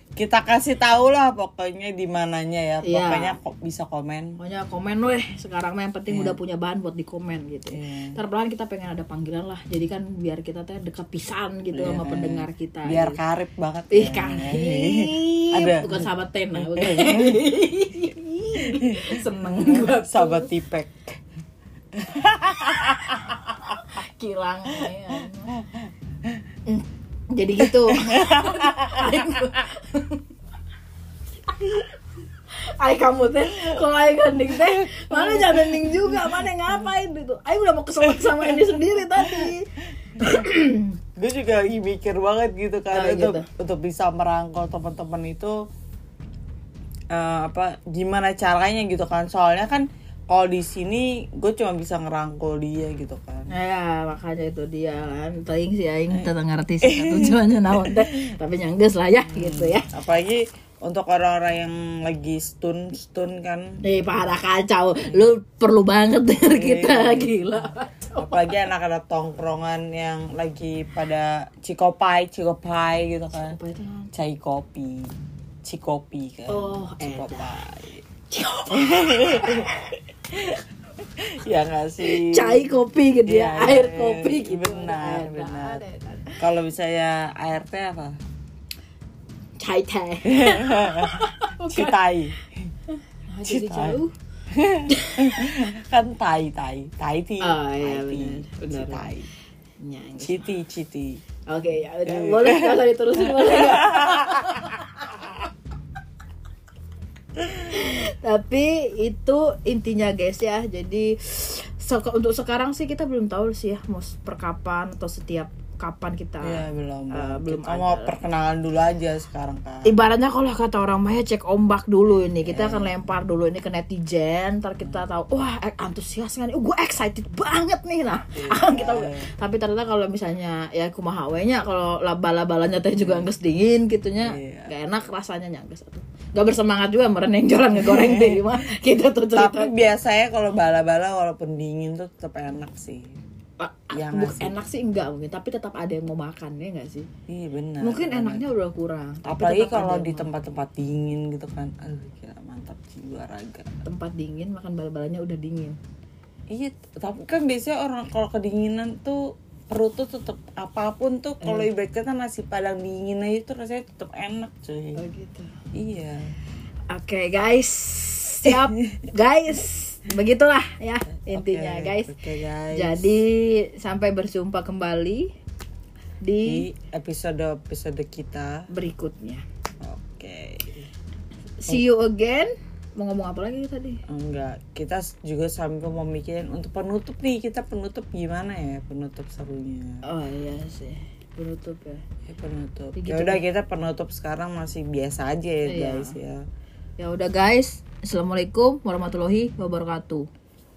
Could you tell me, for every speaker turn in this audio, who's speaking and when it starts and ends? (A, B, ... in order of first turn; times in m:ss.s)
0:00.2-0:04.4 A
0:02.8-0:03.4 B
0:04.4-0:13.2 B
0:06.1-0:06.4 A
0:07.7-0:08.2 A
0:11.7-0:17.4 A
0:13.9-0:20.5 B
0:18.6-0:21.2 A
0:22.0-0:23.5 A
0:23.8-0:25.6 B
0:25.5-0:25.9 A
0:26.7-0:30.2 B
0:27.9-0:29.5 A
0:31.5-0:32.0 B
0:32.7-0:41.0 B
0:34.5-0:36.3 A
0:38.1-0:39.5 A
0:41.2-0:45.6 A
0:42.9-0:43.5 B
0:47.1-0:53.5 A
0:53.5-0:59.9 B
0:56.1-0:58.3 A
0:59.2-1:03.8 A
1:03.8-1:08.5 B
1:06.4-1:13.6 A
1:13.3-1:14.1 B
1:14.1-1:15.1 A
1:15.6-1:18.0 A
1:16.5-1:17.6 B
1:18.3-1:19.8 B
1:18.7-1:19.7 A
1:20.3-1:22.8 A
1:22.0-1:26.4 B
1:23.2-1:25.8 A
1:26.4-1:28.2 A
1:29.6-1:32.0 B
1:30.2-1:32.5 A
1:32.9-1:34.1 B
1:33.4-1:34.0 A
1:34.5-1:39.3 A
1:34.9-1:35.6 B
1:37.4-1:39.1 B
1:39.8-1:40.4 B
1:40.2-1:41.2 A
1:41.5-1:45.3 B
1:42.1-1:44.5 A
1:47.5-1:58.2 B
1:56.4-2:00.0 A
1:59.8-2:19.9 B
2:02.2-2:03.0 A
2:08.4-2:09.3 A
2:13.0-2:13.3 A
2:14.2-2:14.7 A
2:17.8-2:18.5 A
2:19.4-2:23.1 A
2:23.6-2:27.1 B
2:23.9-2:24.6 A
2:27.3-2:28.5 A
2:27.8-2:30.3 B
2:29.2-2:33.7 A
2:33.8-2:35.8 B
2:36.5-2:45.0 A
2:41.4-2:41.7 B
2:44.9-2:45.6 B
2:45.7-2:46.3 A
2:46.9-2:52.2 B
2:48.4-2:48.8 A
2:51.2-2:53.2 A
2:52.7-2:55.3 B
2:56.2-2:56.7 B
2:56.4-2:58.6 A
2:58.7-2:59.4 B
2:59.8-3:00.9 A
3:01.6-3:04.0 B
3:04.1-3:10.0 A
3:10.0-3:12.0 B
3:12.3-3:16.4 A
3:13.0-3:13.4 B
3:15.6-3:16.2 B
3:17.0-3:20.3 B